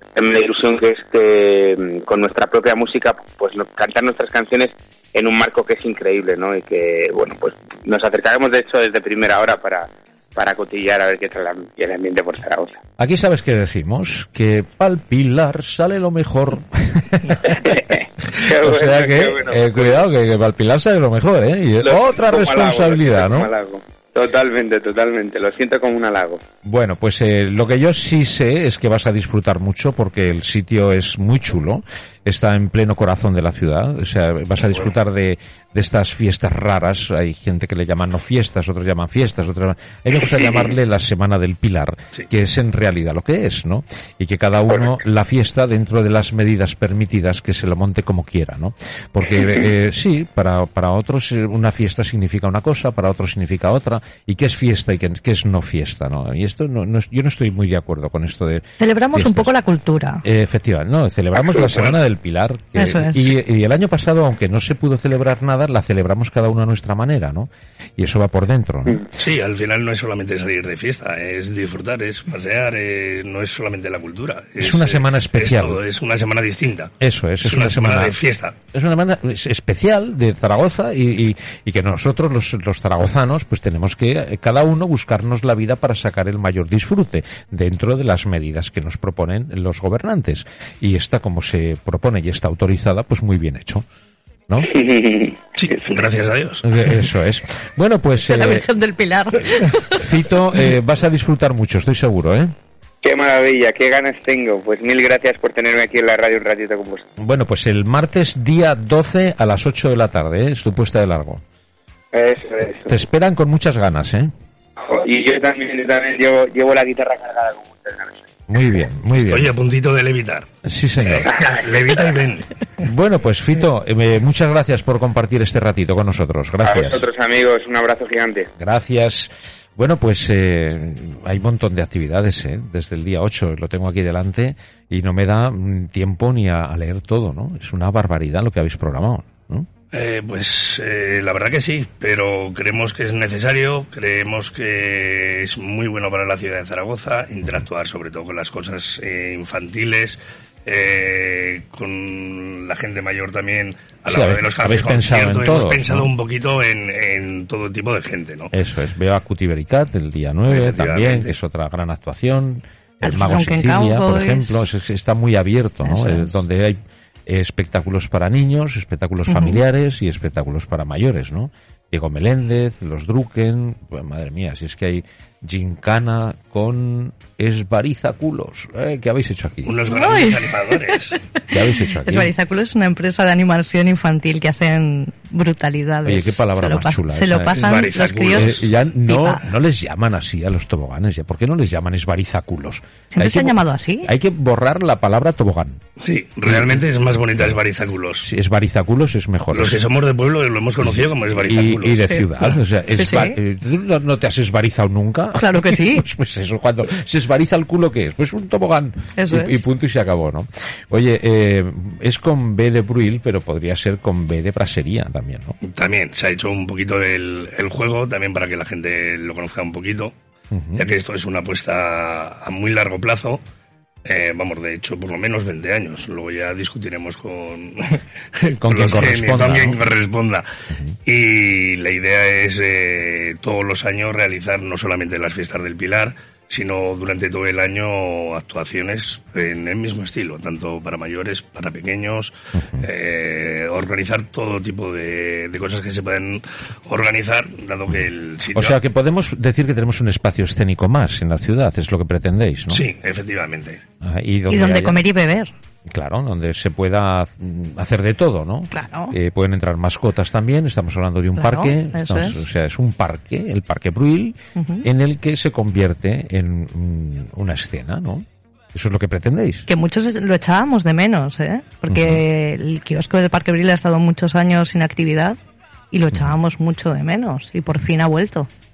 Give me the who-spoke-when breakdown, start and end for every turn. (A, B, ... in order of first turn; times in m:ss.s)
0:00.2-0:12.8 A
0:13.0-0:17.3 B
0:17.4-0:20.0 A
0:18.5-0:23.5 B
0:21.8-0:26.4 A
0:26.6-0:59.5 B
0:58.8-1:00.2 C
1:00.2-1:09.0 B
1:01.6-1:02.0 D
1:02.8-1:03.3 C
1:09.1-1:18.5 D
1:14.6-1:15.8 B
1:17.0-1:18.2 B
1:18.7-1:33.8 B
1:34.6-1:35.4 A
1:35.5-1:36.6 D
1:36.6-1:38.7 B
1:38.3-1:40.1 C
1:39.9-1:42.5 B
1:43.0-1:47.0 A
1:47.2-1:51.4 B
1:52.1-1:52.9 A
1:52.9-1:54.3 B
1:54.8-1:58.2 A
1:58.5-1:59.5 B
1:59.1-2:00.5 D
2:00.6-2:01.3 B
2:01.1-2:01.6 A
2:01.2-2:02.6 D
2:02.8-2:07.0 B
2:06.6-2:08.5 A
2:08.6-2:19.6 B
2:19.9-2:38.5 D
2:34.1-2:36.1 B
2:38.5-2:59.7 B
2:40.5-2:41.3 D
2:43.0-2:44.7 C
2:45.8-2:46.4 C
2:49.3-2:49.6 C
2:59.6-3:01.2 D
2:59.9-3:00.7 C
3:01.5-3:02.3 B
3:01.8-3:09.4 C
3:06.0-3:15.8 B
3:07.6-3:08.7 D
3:13.1-3:14.1 C
3:16.0-3:18.2 D
3:16.4-3:16.8 B
3:18.2-3:19.8 B
3:19.5-3:22.0 D
3:21.3-3:35.6 B
3:23.0-3:23.4 C
3:25.4-3:26.0 C
3:29.2-3:29.6 C
3:35.6-3:40.1 D
3:40.5-3:40.8 B
3:40.8-3:43.4 D
3:44.0-3:50.4 D
3:48.6-3:49.9 B
3:51.0-4:08.8 D
4:02.5-4:02.8 B
4:08.5-4:12.8 B
4:12.7-4:13.8 D
4:14.0-4:15.0 B
4:14.5-4:15.5 C
4:15.9-4:29.7 B
4:18.7-4:19.1 C
4:21.4-4:22.4 C
4:24.6-4:24.8 C
4:29.7-4:35.4 C
4:31.9-4:32.2 B
4:35.9-4:38.5 C